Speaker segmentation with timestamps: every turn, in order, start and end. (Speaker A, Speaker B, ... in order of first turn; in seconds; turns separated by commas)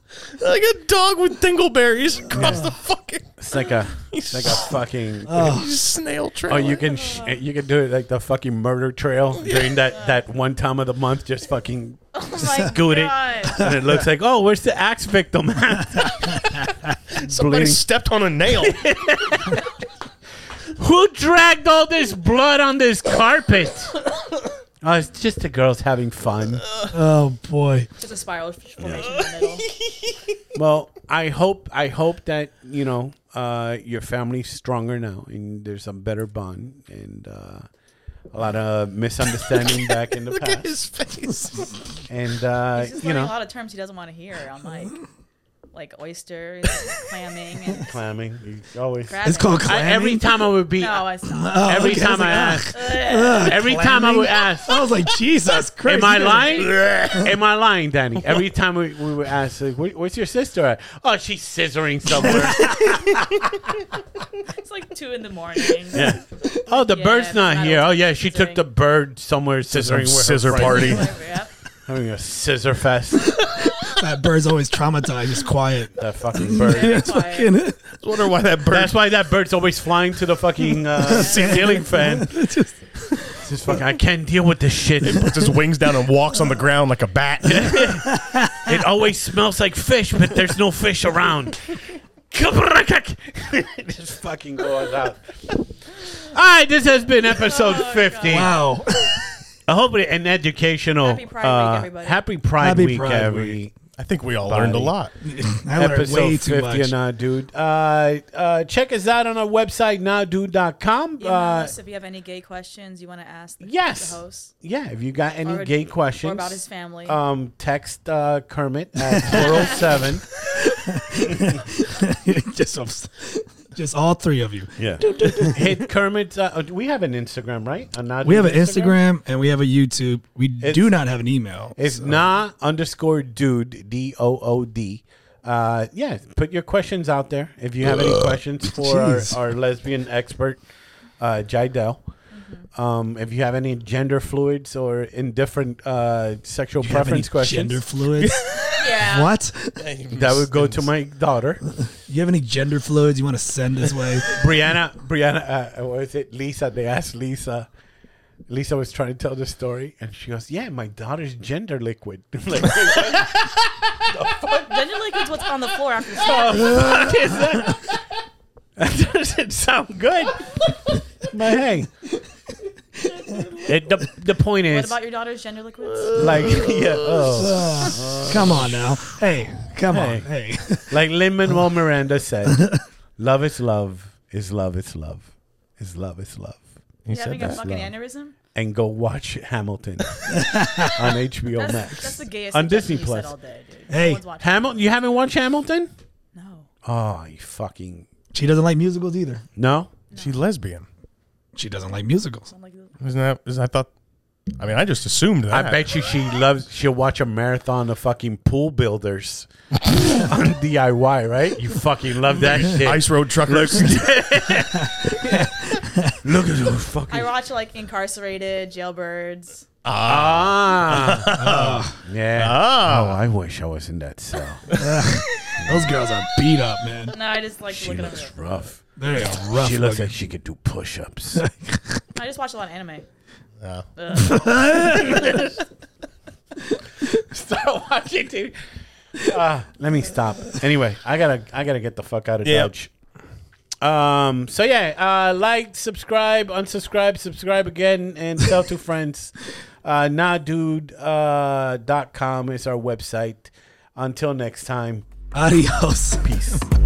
Speaker A: 0.3-4.8, Speaker B: 2.3-2.8, Speaker C: 3.4-5.6, Speaker B: 5.3-5.7, Speaker A: 5.3-6.8, Speaker C: 6.5-16.6, Speaker D: 6.6-7.4, Speaker A: 9.5-9.8, Speaker D: 9.9-10.2, Speaker D: 12.1-13.7, Speaker A: 17.1-18.9, Speaker C: 17.2-17.8, Speaker C: 18.6-19.6, Speaker C: 20.8-24.0, Speaker C: 24.8-26.7, Speaker B: 26.9-27.9, Speaker D: 28.0-29.7, Speaker C: 28.8-29.1, Speaker A: 29.0-29.2, Speaker C: 30.6-37.7, Speaker C: 38.3-40.7, Speaker A: 39.5-39.8, Speaker A: 40.3-41.8, Speaker C: 42.1-43.3, Speaker D: 42.7-45.0, Speaker D: 45.7-48.0, Speaker C: 47.8-51.1, Speaker D: 49.1-49.9, Speaker B: 49.2-50.4, Speaker D: 50.8-53.8, Speaker B: 51.3-57.3, Speaker C: 51.6-52.7, Speaker C: 53.4-54.8, Speaker C: 55.8-63.2, Speaker D: 56.2-56.7, Speaker A: 56.7-57.1, Speaker D: 64.5-66.0, Speaker C: 65.9-71.2, Speaker D: 66.7-68.6, Speaker A: 69.7-71.2, Speaker D: 70.5-71.5, Speaker C: 71.9-73.5, Speaker B: 73.8-77.8, Speaker C: 76.0-77.1, Speaker D: 76.5-77.5, Speaker A: 77.9-79.0, Speaker C: 78.7-82.3, Speaker B: 80.9-83.4, Speaker D: 81.1-81.5, Speaker A: 81.4-81.8, Speaker C: 83.4-85.3, Speaker A: 85.0-88.0, Speaker C: 87.5-91.8, Speaker B: 88.1-88.7, Speaker C: 92.3-95.3, Speaker C: 96.1-98.6, Speaker D: 97.4-98.5, Speaker B: 98.3-99.4, Speaker C: 99.7-103.8, Speaker D: 101.0-102.2, Speaker B: 102.6-103.6, Speaker A: 104.0-105.1, Speaker C: 104.5-104.9, Speaker B: 105.2-106.9, Speaker C: 105.8-111.7, Speaker D: 111.2-114.5, Speaker C: 113.6-120.5, Speaker D: 115.4-117.2, Speaker B: 119.1-125.8, Speaker C: 121.3-121.6, Speaker C: 124.8-129.0, Speaker B: 128.2-132.2, Speaker C: 130.6-131.0, Speaker C: 131.8-140.6, Speaker B: 137.8-139.4, Speaker C: 141.2-142.1, Speaker D: 142.3-142.7, Speaker C: 142.7-147.8, Speaker B: 146.8-148.4, Speaker A: 148.2-149.0, Speaker D: 148.7-149.3, Speaker B: 149.0-149.8, Speaker A: 149.8-150.9, Speaker C: 150.1-151.6, Speaker B: 151.7-154.5, Speaker C: 154.3-157.7, Speaker C: 158.5-165.2, Speaker D: 164.7-167.1, Speaker C: 166.2-168.0, Speaker C: 168.8-171.9, Speaker C: 173.5-175.0, Speaker D: 174.7-176.5, Speaker A: 176.0-177.5, Speaker C: 176.1-179.1, Speaker B: 177.4-181.0, Speaker C: 179.9-180.3, Speaker C: 180.8-186.7, Speaker A: 187.1-187.6, Speaker D: 187.1-188.3, Speaker C: 187.4-187.9, Speaker C: 188.5-190.2, Speaker B: 190.3-191.1, Speaker C: 190.8-193.3, Speaker D: 191.6-194.8, Speaker B: 193.9-194.2, Speaker C: 194.4-195.9, Speaker D: 196.3-196.7, Speaker C: 196.8-198.1, Speaker B: 198.3-199.4, Speaker C: 199.6-199.9, Speaker D: 200.1-200.4, Speaker A: 200.2-200.9, Speaker B: 201.6-202.5, Speaker D: 202.5-202.9, Speaker A: 203.0-203.9, Speaker A: 204.6-205.9, Speaker C: 205.5-209.5, Speaker C: 210.1-215.5, Speaker A: 212.3-214.1, Speaker B: 215.1-216.2, Speaker C: 216.2-217.3, Speaker D: 217.1-219.7, Speaker A: 219.8-223.2, Speaker C: 220.1-224.7, Speaker B: 221.3-222.0, Speaker B: 224.7-227.1, Speaker C: 225.6-225.9, Speaker D: 227.1-228.6, Speaker C: 227.7-228.8, Speaker B: 229.0-230.2, Speaker C: 229.5-231.4, Speaker B: 231.3-232.0, Speaker D: 232.2-233.1, Speaker D: 234.0-235.5, Speaker B: 234.2-235.2, Speaker C: 235.1-235.5, Speaker C: 237.1-238.6, Speaker C: 239.2-242.9, Speaker A: 242.4-242.7, Speaker C: 243.8-255.1, Speaker B: 255.3-256.6, Speaker C: 256.2-256.7